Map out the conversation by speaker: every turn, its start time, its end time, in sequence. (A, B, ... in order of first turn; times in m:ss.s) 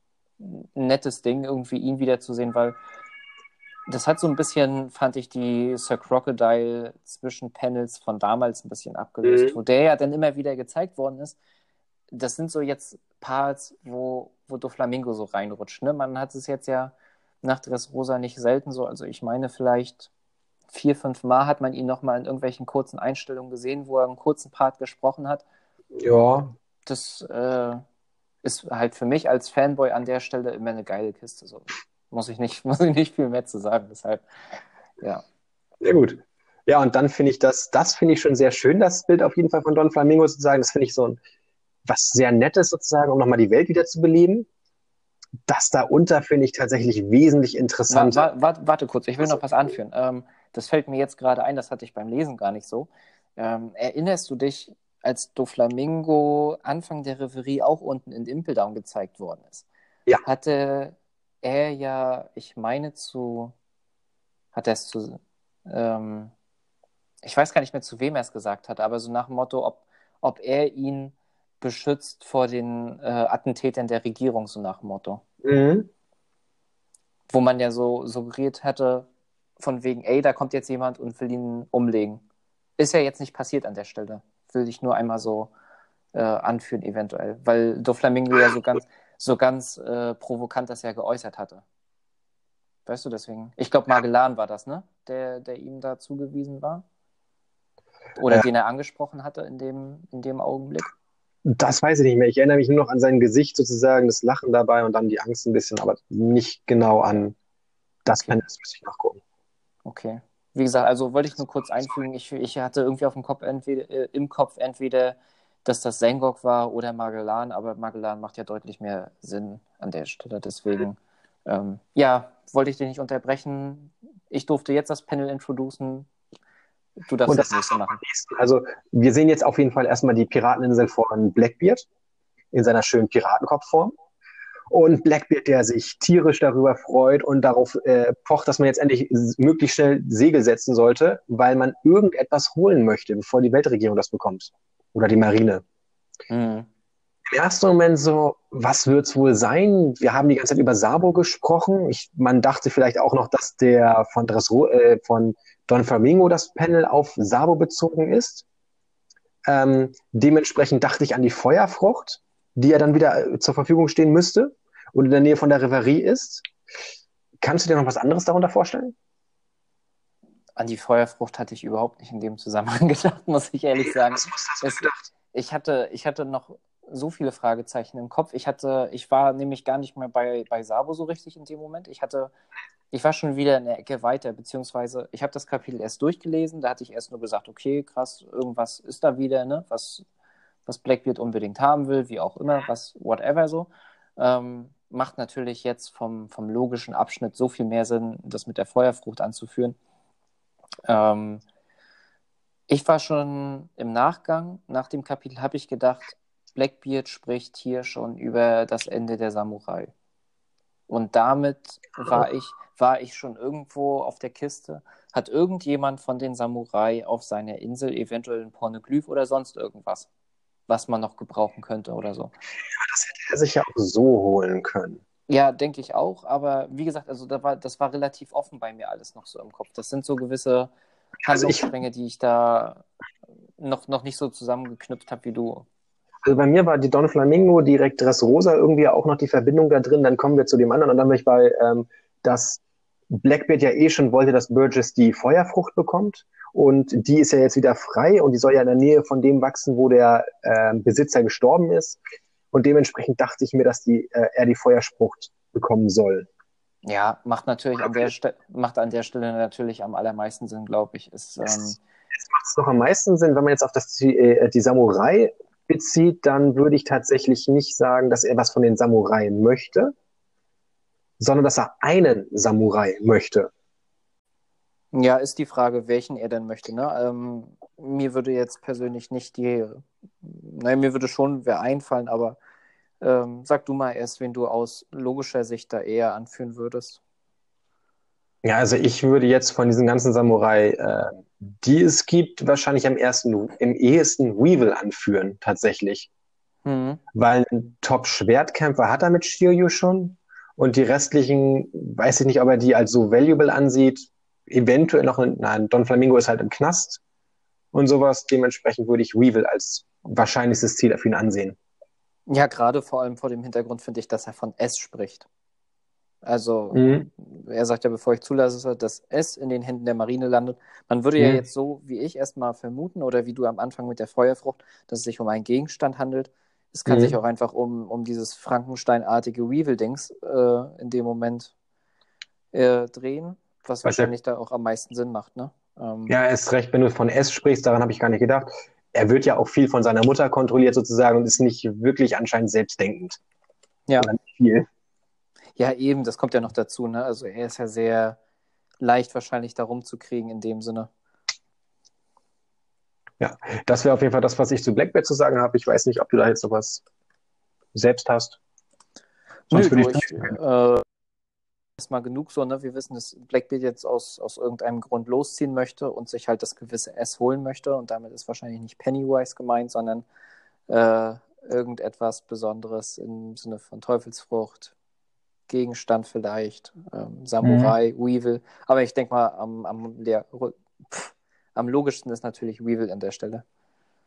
0:00.4-0:02.8 A
0:03.9-0:11.4 A
0:09.2-0:09.6 B
0:12.1-0:20.1 A
0:20.7-0:25.4 A
0:26.0-0:26.5 B
0:26.8-0:27.8 A
0:28.4-0:34.2 A
0:35.8-0:41.2 B
0:41.8-0:44.5 B
0:45.5-0:48.3 B
0:47.9-0:59.6 A
0:49.2-0:49.8 B
1:00.2-1:03.5 A
1:04.5-1:06.3 A
1:07.2-1:15.2 A
1:15.4-1:15.9 B
1:17.3-1:19.1 A
1:19.6-1:22.2 A
1:22.8-1:25.5 A
1:26.1-1:31.6 A
1:32.8-1:36.8 A
1:38.2-1:40.9 A
1:41.4-1:47.4 B
1:48.0-1:49.2 B
1:49.8-2:06.1 A
2:07.0-2:08.0 A
2:07.2-2:11.9 B
2:12.5-2:13.9 B
2:14.7-2:25.6 B
2:26.3-2:26.7 A
2:27.3-2:38.4 B
2:39.4-2:46.4 B
2:47.4-2:48.9 B
2:50.6-3:02.3 A
2:53.8-2:55.1 B
3:02.9-3:10.0 A
3:10.6-3:19.8 A
3:20.9-3:21.4 A
3:22.7-3:29.9 A
3:30.9-3:40.1 A
3:40.7-3:42.3 A
3:42.8-3:45.0 B
3:45.3-3:50.7 A
3:51.2-3:51.7 B
3:51.3-3:52.8 A
3:53.6-3:55.6 A
3:56.2-4:12.0 B
4:12.5-4:16.3 B
4:16.8-4:21.8 A
4:17.8-4:18.1 B
4:21.4-4:29.9 B
4:31.2-4:33.5 B
4:34.9-4:42.4 A
4:43.0-4:47.0 A
4:48.4-4:56.1 B
4:56.6-4:57.0 A
4:57.1-5:07.0 B
5:07.7-5:11.6 B
5:12.3-5:15.2 A
5:16.2-5:31.5 A
5:16.7-5:17.1 B
5:21.2-5:21.4 B
5:26.9-5:27.2 B
5:32.5-5:36.1 A
5:33.8-5:34.1 B
5:36.1-5:43.2 B
5:44.0-5:44.7 B
5:45.6-5:48.2 A
5:48.8-5:50.9 A
5:53.2-5:56.8 B
5:57.7-5:58.4 B
5:59.5-6:00.8 A
5:59.5-6:00.3 B
6:01.8-6:10.0 A
6:10.7-6:14.7 A
6:15.5-6:23.4 A
6:17.4-6:17.7 B